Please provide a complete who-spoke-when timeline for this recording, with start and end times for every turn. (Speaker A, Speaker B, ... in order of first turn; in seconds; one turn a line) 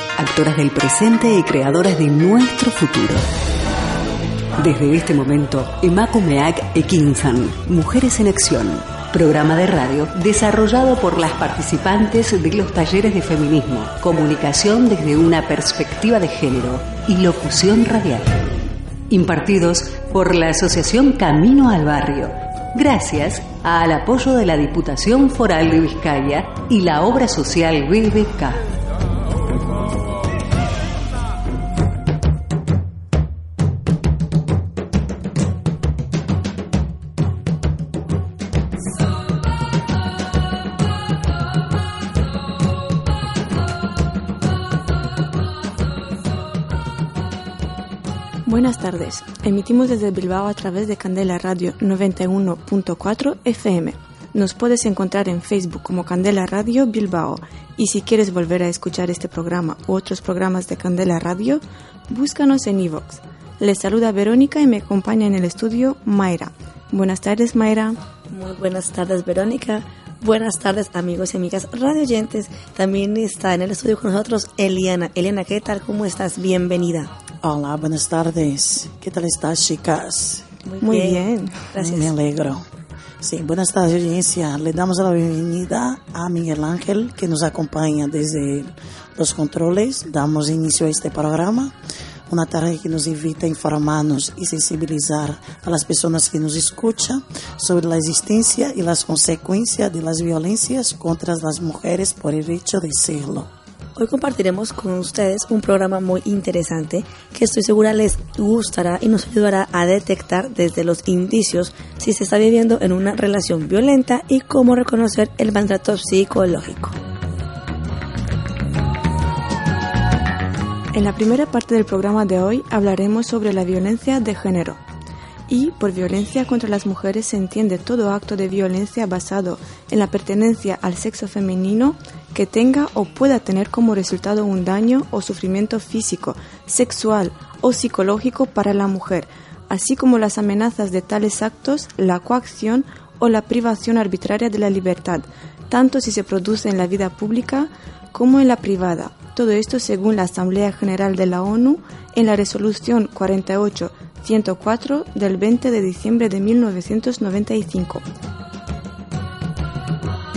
Speaker A: 0.2-3.2
Speaker A: 4.6-18.3
Speaker A: 19.1-28.6
Speaker B: 48.4-68.0
Speaker C: 68.3-77.1
Speaker D: 77.4-80.5
Speaker C: 80.7-82.0
Speaker B: 80.8-81.7
Speaker D: 81.8-82.6
Speaker D: 83.2-91.8
Speaker D: 92.3-103.5
Speaker C: 104.0-117.0
Speaker B: 120.9-124.8
Speaker B: 125.5-158.0